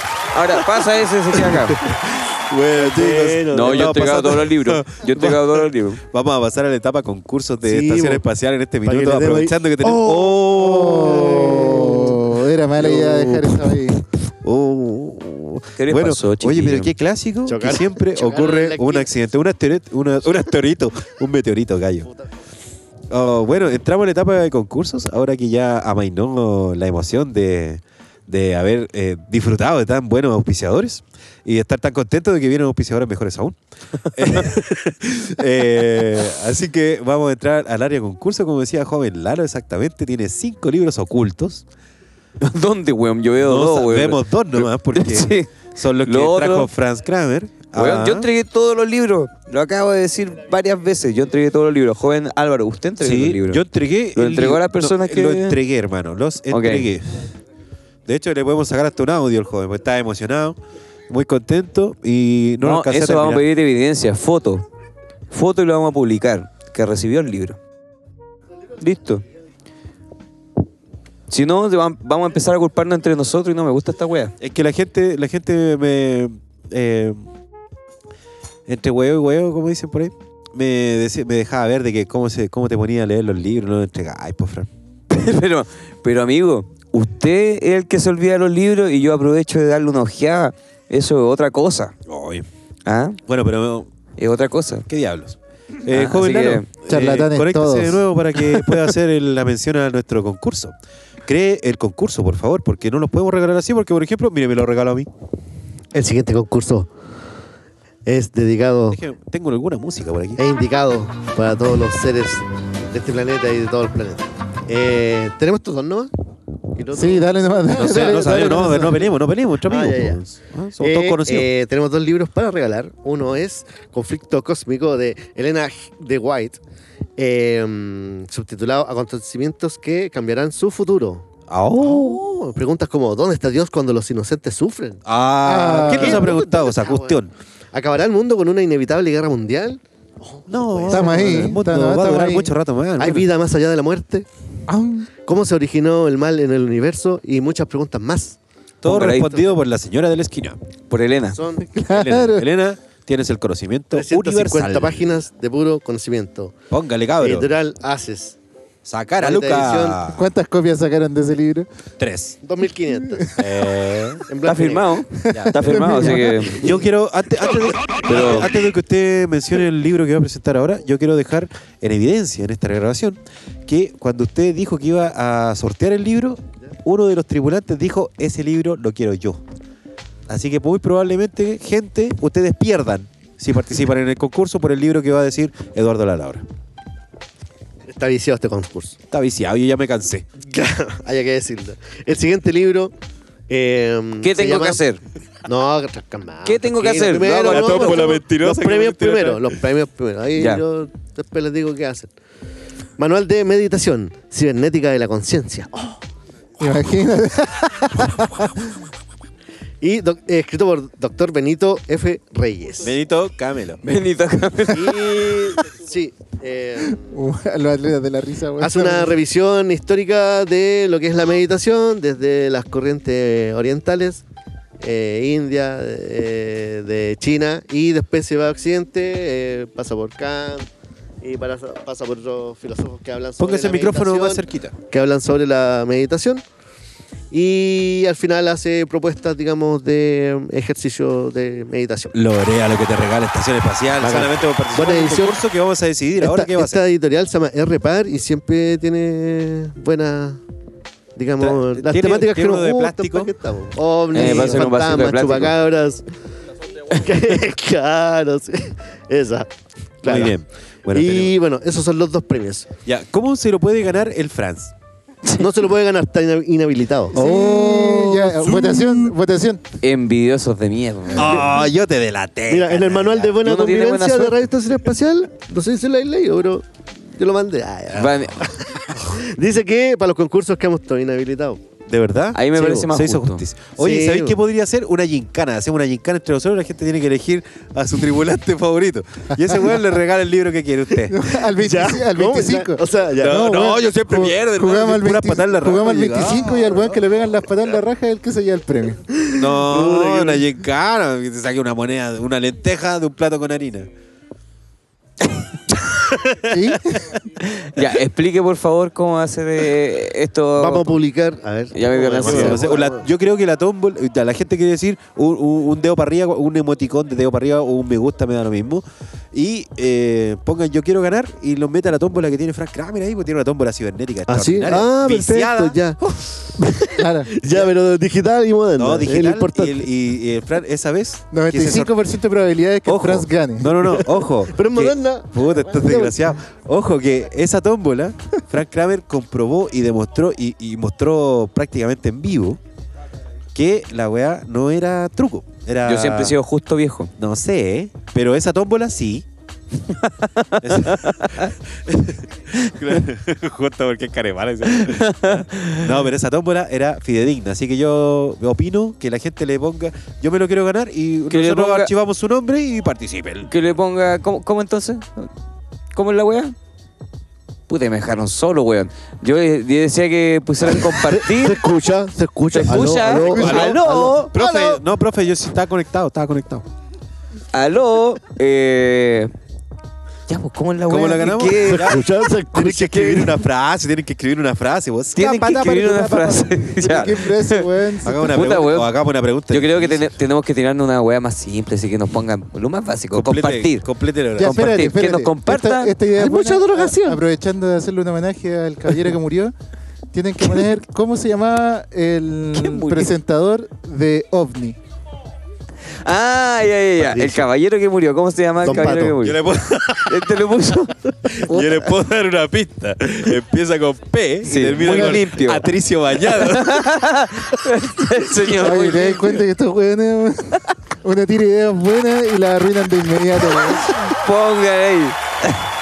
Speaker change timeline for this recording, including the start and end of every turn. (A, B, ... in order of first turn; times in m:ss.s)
0:00.3-0:01.8 A
0:01.3-0:11.7 B
0:02.7-0:04.1 C
0:03.5-0:06.0 A
0:07.6-0:08.2 C
0:08.8-0:13.3 C
0:10.5-0:14.0 D
0:12.9-0:13.7 B
0:14.4-0:22.1 B
0:15.8-0:16.9 A
0:17.5-0:19.1 C
0:23.1-0:41.6 B
0:42.4-0:45.5 A
0:43.4-0:48.3 B
0:46.0-0:46.7 A
0:47.7-0:53.6 A
0:53.0-0:57.3 B
0:54.2-0:55.6 A
0:56.5-0:56.9 A
0:58.1-1:00.6 B
1:01.1-1:03.4 B
1:02.6-1:04.6 A
1:05.3-1:07.6 A
1:08.8-1:09.2 A
1:11.3-1:14.3 A
1:14.4-1:17.2 B
1:18.7-1:24.7 B
1:25.1-1:31.9 A
1:32.1-1:32.5 B
1:32.9-1:33.2 A
1:33.3-1:33.9 B
1:34.2-1:34.9 A
1:34.9-1:40.8 B
1:35.9-1:36.7 A
1:36.9-1:38.0 D
1:41.3-1:45.1 B
1:45.9-1:46.9 C
1:48.1-1:49.0 C
1:48.9-1:50.4 B
1:50.4-1:56.1 C
1:56.7-1:59.1 C
1:57.0-1:59.0 D
1:57.7-2:01.5 B
1:59.6-2:00.2 C
2:00.8-2:06.6 C
2:07.2-2:15.0 C
2:11.5-2:12.2 B
2:15.1-2:17.3 B
2:15.4-2:16.3 D
2:15.9-2:17.2 C
2:17.7-2:21.6 C
2:20.5-2:23.3 B
2:20.9-2:22.5 D
2:23.0-2:24.3 C
2:24.7-2:25.1 D
2:25.2-2:28.4 C
2:28.8-2:30.6 B
2:28.8-2:29.5 A
2:30.9-2:31.4 A
2:31.3-2:31.7 C
2:31.7-2:32.5 D
2:31.9-2:35.1 B
2:33.9-2:36.6 C
2:36.7-2:37.5 B
2:37.2-2:38.4 C
2:38.8-2:40.3 B
2:39.2-2:40.0 C
2:40.1-2:41.7 D
2:42.0-2:42.4 B
2:42.4-2:43.4 C
2:43.4-2:44.2 B
2:44.3-2:45.0 C
2:44.4-2:46.7 A
2:45.2-2:46.5 D
2:45.3-2:59.4 B
2:48.1-2:48.5 A
3:00.3-3:06.4 B
3:07.9-3:09.0 C
3:09.1-3:10.3 B
3:10.4-3:12.9 C
3:13.5-3:14.8 C
3:14.2-3:15.0 A
3:15.4-3:22.1 C
3:16.4-3:18.3 A
3:17.4-3:19.5 B
3:20.4-3:20.6 A
3:23.0-3:26.0 C
3:26.6-3:28.7 D
3:29.8-3:32.9 C
3:32.8-3:33.8 B
3:33.8-3:35.5 A
3:34.7-3:37.1 C
3:36.9-3:39.2 D
3:38.6-3:44.2 C
3:44.8-3:50.7 C
3:51.2-3:56.4 C
3:53.4-3:54.8 B
3:57.3-4:02.1 C
4:02.1-4:06.8 B
4:04.0-4:05.4 C
4:06.2-4:10.4 C
4:11.2-4:16.1 C
4:11.4-4:13.3 B
4:14.1-4:15.5 A
4:16.9-4:19.5 C
4:20.0-4:20.4 C
4:20.0-4:21.3 B
4:20.9-4:22.7 C
4:22.8-4:24.7 B
4:25.4-4:28.9 C
4:27.1-4:29.6 D
4:27.2-4:28.9 B
4:29.8-4:31.5 A
4:31.1-4:33.4 B
4:32.5-4:41.6 C
4:33.4-4:34.4 A
4:37.9-4:38.5 A
4:41.9-4:51.2 B
4:42.3-4:43.4 A
4:43.8-4:44.4 C
4:51.1-4:59.0 D
4:51.5-4:53.6 C
4:53.2-4:57.0 B
4:59.1-5:00.5 C
4:59.3-5:03.9 B
5:06.1-5:06.4 B
5:06.5-5:07.2 D
5:07.4-5:11.0 A
5:10.6-5:13.1 C
5:11.7-5:12.6 A
5:12.1-5:26.2 B
5:24.3-5:29.9 C
5:27.0-5:27.3 D
5:28.8-5:31.9 B
5:31.3-5:34.0 D
5:32.9-5:42.6 B
5:33.9-5:36.3 C
5:43.5-5:46.4 B
5:45.8-5:47.1 A
5:47.2-5:49.3 B
5:50.0-5:51.5 A
5:50.6-6:03.5 B
5:54.7-5:56.0 A
6:01.3-6:01.9 A
6:03.5-6:05.3 A
6:05.9-6:06.6 A
6:07.7-6:11.6 A
6:10.6-6:14.8 C
6:12.5-6:14.3 A
6:13.2-6:16.7 B
6:17.5-6:19.3 A
6:20.3-6:22.0 A
6:20.9-6:27.1 B
6:21.6-6:23.4 C
6:25.2-6:27.7 A
6:26.8-6:28.3 D
6:28.0-6:30.0 B
6:28.2-6:28.9 A
6:29.5-6:33.9 A
6:33.1-6:34.8 B
6:34.4-6:35.9 A
6:34.4-6:39.5 D
6:36.1-6:37.2 C
6:40.1-6:44.8 D
6:42.5-6:43.1 A
6:46.0-6:49.4 A
6:47.0-6:47.5 C
6:48.6-6:49.2 C
6:49.2-6:50.4 B
6:50.0-6:51.1 A
6:51.3-6:56.9 B
6:54.4-6:59.4 A
6:58.6-7:04.0 D
7:03.5-7:05.6 A